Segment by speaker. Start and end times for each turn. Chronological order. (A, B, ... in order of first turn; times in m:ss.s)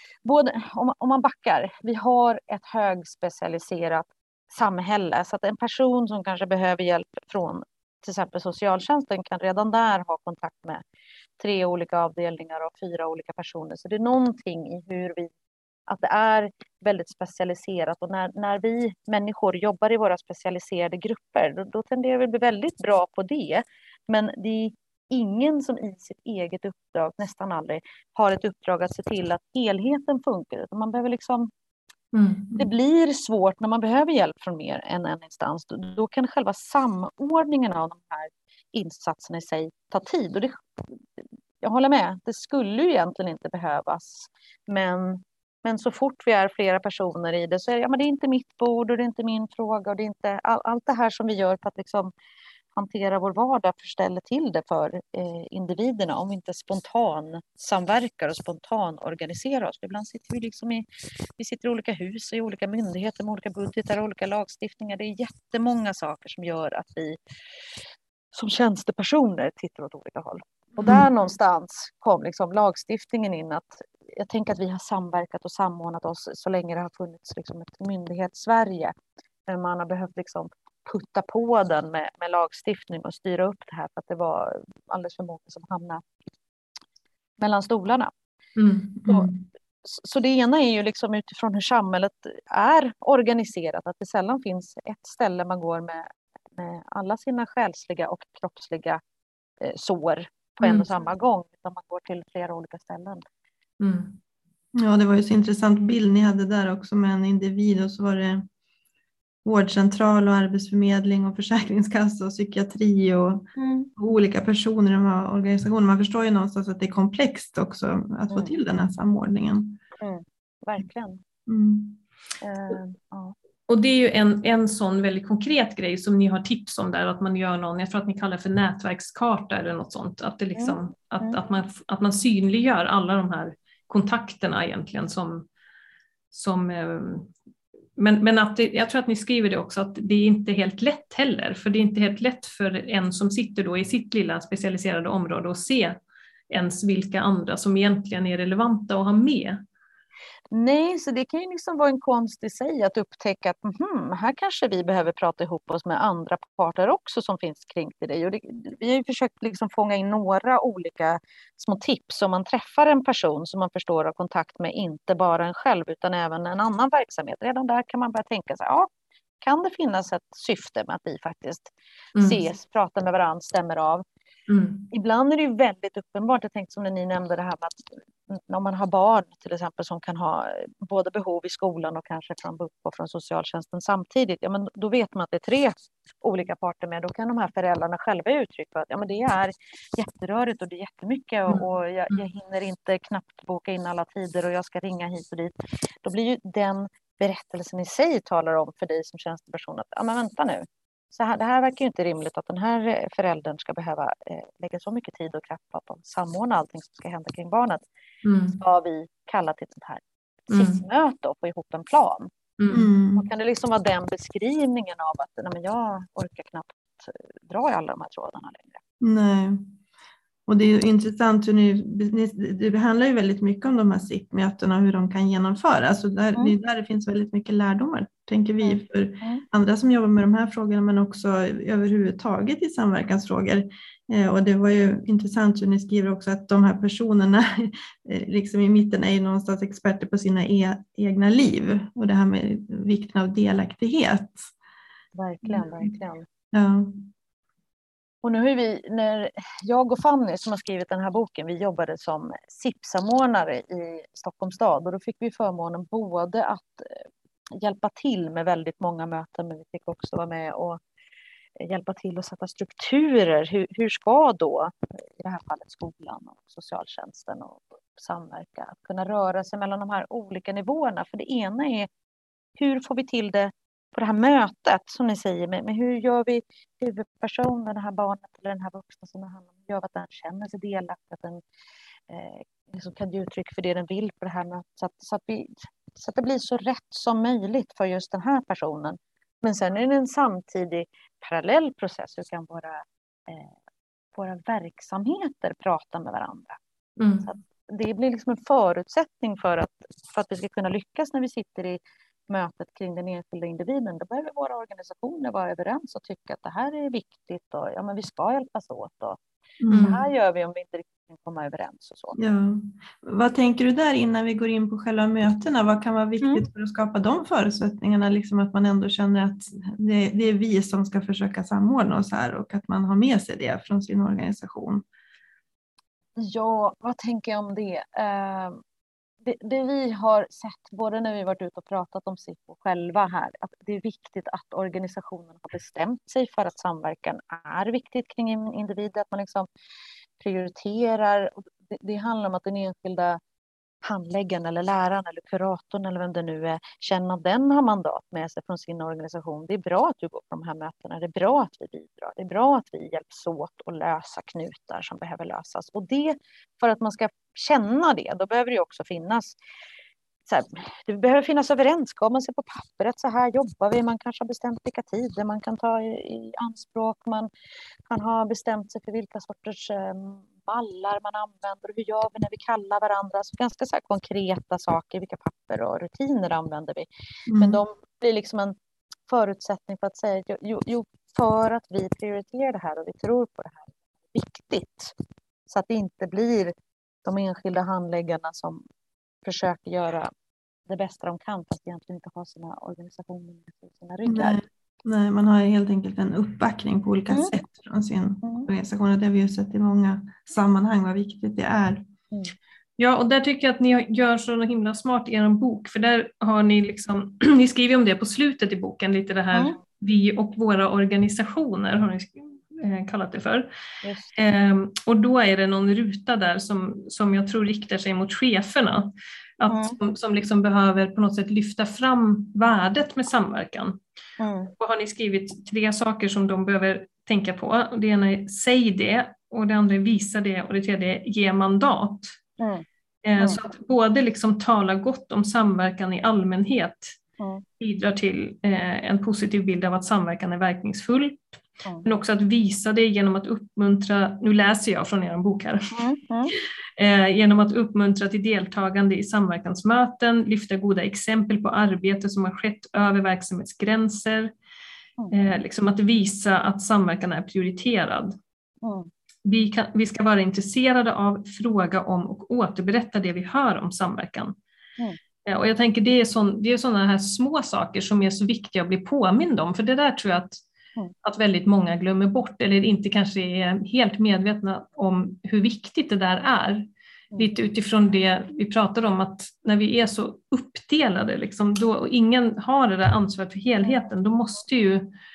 0:00.2-0:10.8 A
0:11.4-0:15.3 A
0:15.9-0:31.5 A
0:32.1-0:32.7 B
0:32.6-0:52.1 A
0:52.8-1:00.9 A
1:01.4-1:07.2 A
1:08.3-1:18.9 A
1:19.5-1:26.0 A
1:27.4-1:28.1 A
1:28.6-1:29.3 B
1:29.8-1:39.0 A
1:39.6-1:43.2 A
1:40.6-1:40.9 B
1:43.8-1:44.2 B
1:44.8-1:48.5 C
1:49.4-1:59.8 C
1:53.6-1:53.9 A
1:58.3-1:58.6 A
2:00.0-2:01.2 A
2:01.5-2:02.0 C
2:02.4-2:03.4 A
2:03.7-2:15.5 B
2:10.6-2:11.4 A
2:16.3-2:17.3 B
2:18.0-2:26.0 B
2:26.5-2:29.6 B
2:30.5-2:48.9 A
2:49.4-2:54.0 A
2:54.5-2:54.9 B
2:54.9-3:27.8 A
3:11.5-3:12.2 B
3:28.2-3:28.6 B
3:28.6-3:32.3 A
3:30.5-3:30.8 B
3:32.6-3:32.9 B
3:32.7-3:33.3 C
3:33.2-3:38.8 A
3:39.0-3:39.7 C
3:40.5-4:04.5 C
3:48.6-3:49.4 A
4:05.2-4:06.2 A
4:05.5-4:05.9 C
4:06.5-4:07.1 C
4:08.2-4:17.1 A
4:17.6-4:20.8 A
4:21.6-4:31.9 A
4:32.6-4:41.4 A
4:42.1-4:53.5 A
4:54.1-4:56.6 A
4:57.0-4:57.3 B
4:57.2-5:09.2 A
5:09.6-5:10.0 C
5:09.7-5:10.0 B
5:09.8-5:12.2 A
5:12.2-5:24.8 C
5:26.2-5:28.6 A
5:29.2-5:39.5 A
5:40.2-5:43.2 A
5:43.8-5:59.4 A
6:00.3-6:07.3 A
6:07.9-6:18.6 A
6:17.3-6:17.6 C
6:19.1-6:25.0 A
6:25.5-6:28.6 A
6:29.2-6:30.1 A
6:30.7-6:34.4 A
6:34.1-6:41.8 C
6:38.2-6:38.5 A
6:42.8-6:53.5 B
6:53.8-6:54.2 A
6:54.2-7:03.8 B
6:59.5-6:59.8 A
7:04.2-7:04.5 A
7:04.6-7:12.2 B
7:12.4-7:12.6 A
7:13.0-7:17.0 B
7:17.2-7:17.4 A
7:17.6-7:21.2 B
7:21.8-7:25.7 B
7:25.7-7:26.3 A
7:26.8-7:34.3 B
7:35.1-7:38.2 B
7:38.6-7:38.9 A
7:39.2-7:44.4 B
7:45.2-7:50.4 B
7:51.0-8:04.9 B